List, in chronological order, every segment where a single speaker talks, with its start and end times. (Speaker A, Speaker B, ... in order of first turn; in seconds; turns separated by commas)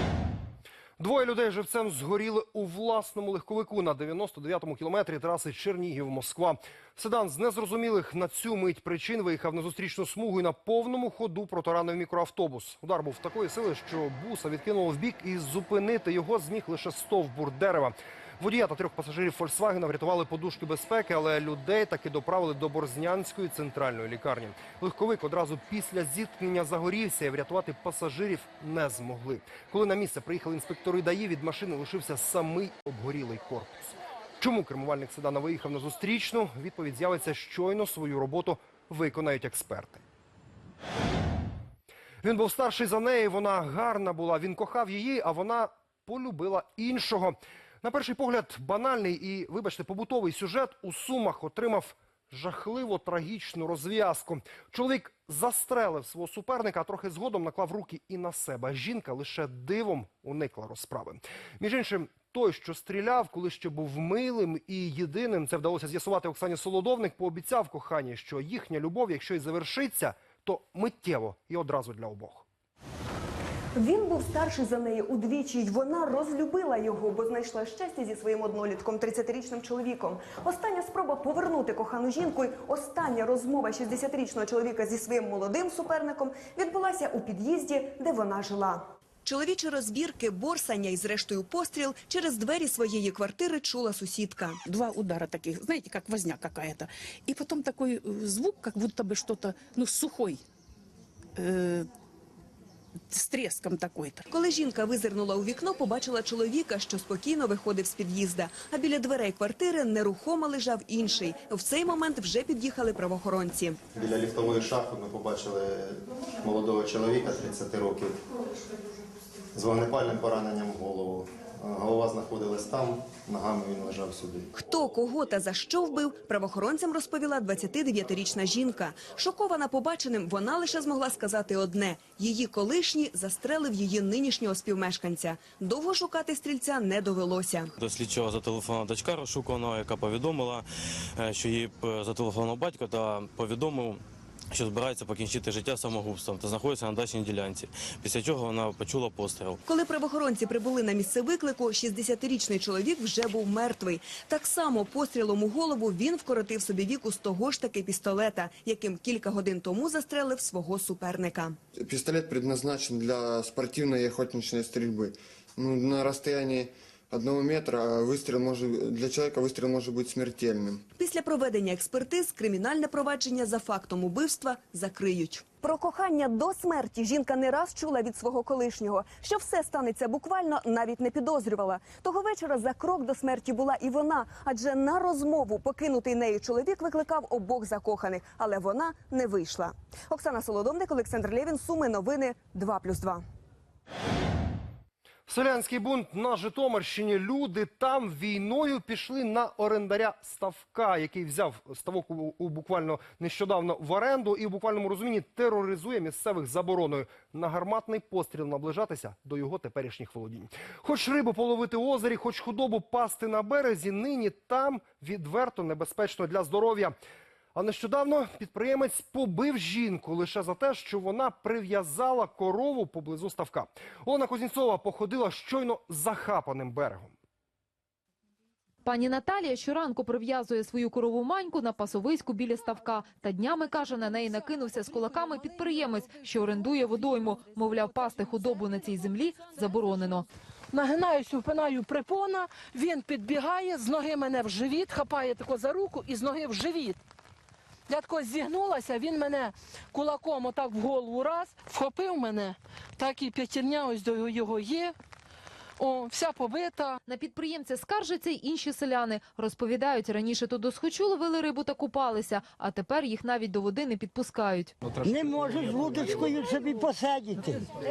Speaker A: 1.0-40.0, Speaker A: 42.2-72.5, Speaker B: 73.8-94.6, Speaker B: 104.3-113.8, Speaker C: 113.9-118.2, Speaker C: 119.5-124.5, Speaker B: 124.5-137.7, Speaker D: 137.8-140.7, Speaker D: 141.2-144.0, Speaker D: 144.5-149.6, Speaker B: 149.7-161.6, Speaker E: 161.7-170.8, Speaker B: 171.0-193.2, Speaker A: 195.3-217.0, Speaker A: 217.6-227.2, Speaker F: 228.9-240.3, Speaker G: 240.7-247.0, Speaker G: 247.9-254.9, Speaker G: 255.8-257.0, Speaker F: 257.1-264.7, Speaker H: 265.0-267.6